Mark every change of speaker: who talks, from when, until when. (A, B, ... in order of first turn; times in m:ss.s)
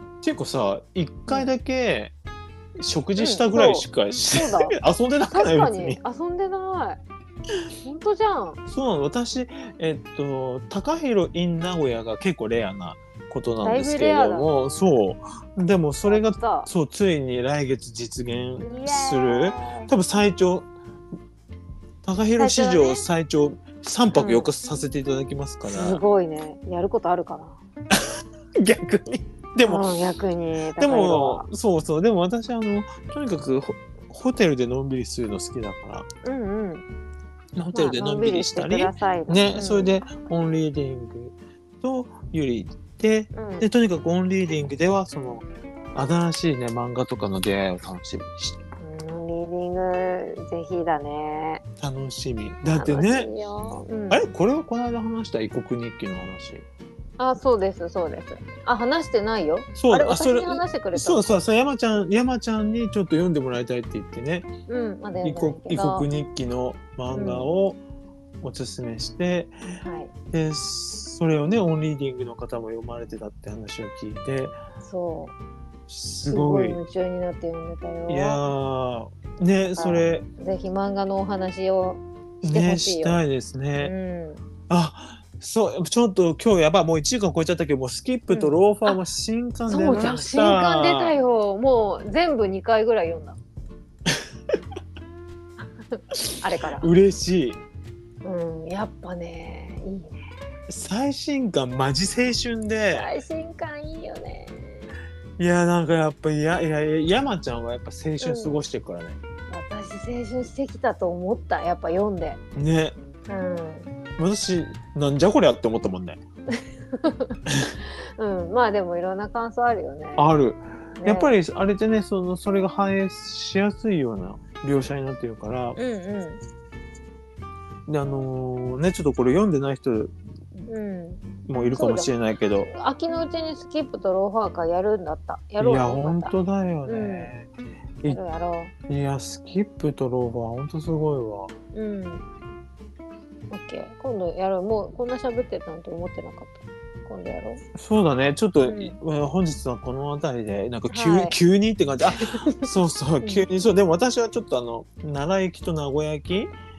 0:00.2-0:02.1 A
0:02.8-0:06.0 A
0:03.2-0:04.7 B
0:05.3-0:07.0 B
0:07.8-0:08.6 B
0:08.7-0:20.7 A
0:13.6-0:14.9 B
0:16.0-0:16.7 B
0:18.6-0:19.9 B
0:22.0-0:26.0 A
0:22.4-0:23.1 B
0:24.1-0:24.5 B
0:25.6-0:27.6 B
0:27.9-0:29.9 A
0:29.6-0:31.5 B
0:30.8-0:36.1 A
0:36.2-0:36.8 B
0:37.6-0:48.6 A
0:37.7-0:40.0 B
0:43.3-0:43.7 B
0:48.8-0:51.6 B
0:51.8-0:53.3 A
0:52.7-0:54.3 B
0:54.1-0:56.6 A
0:57.2-1:01.4 B
0:59.8-1:04.5 A
1:04.7-1:06.1 B
1:05.2-1:07.8 A
1:07.1-1:07.6 B
1:08.4-1:09.8 A
1:09.8-1:10.1 B
1:10.3-1:14.6 A
1:14.8-1:15.3 B
1:15.9-1:16.8 A
1:16.3-1:18.4 B
1:18.1-1:20.3 A
1:19.7-1:23.2 B
1:22.4-1:23.9 A
1:23.8-1:24.5 B
1:24.7-1:31.1 A
1:28.3-1:29.0 B
1:29.7-1:33.4 B
1:35.6-1:36.9 B
1:36.3-1:37.6 A
1:38.2-1:40.2 B
1:40.7-1:43.1 A
1:42.9-1:44.9 B
1:45.4-1:49.2 A
1:48.2-1:48.6 B
1:49.5-1:52.4 B
1:52.6-1:52.9 A
1:53.3-1:53.9 B
1:54.2-1:56.2 A
1:56.6-1:57.4 B
1:57.5-1:57.7 A
1:58.2-2:00.3 B
2:00.2-2:05.8 A
2:01.0-2:01.3 B
2:05.8-2:06.4 B
2:07.9-2:10.1 A
2:10.7-2:12.1 B
2:11.5-2:12.7 A
2:12.6-2:17.3 B
2:15.6-2:18.2 A
2:18.1-2:18.7 B
2:18.9-2:21.5 A
2:21.7-2:22.2 B
2:23.5-2:27.6 B
2:27.7-2:36.5 A
2:28.6-2:29.0 B
2:30.9-2:31.4 B
2:32.2-2:32.7 B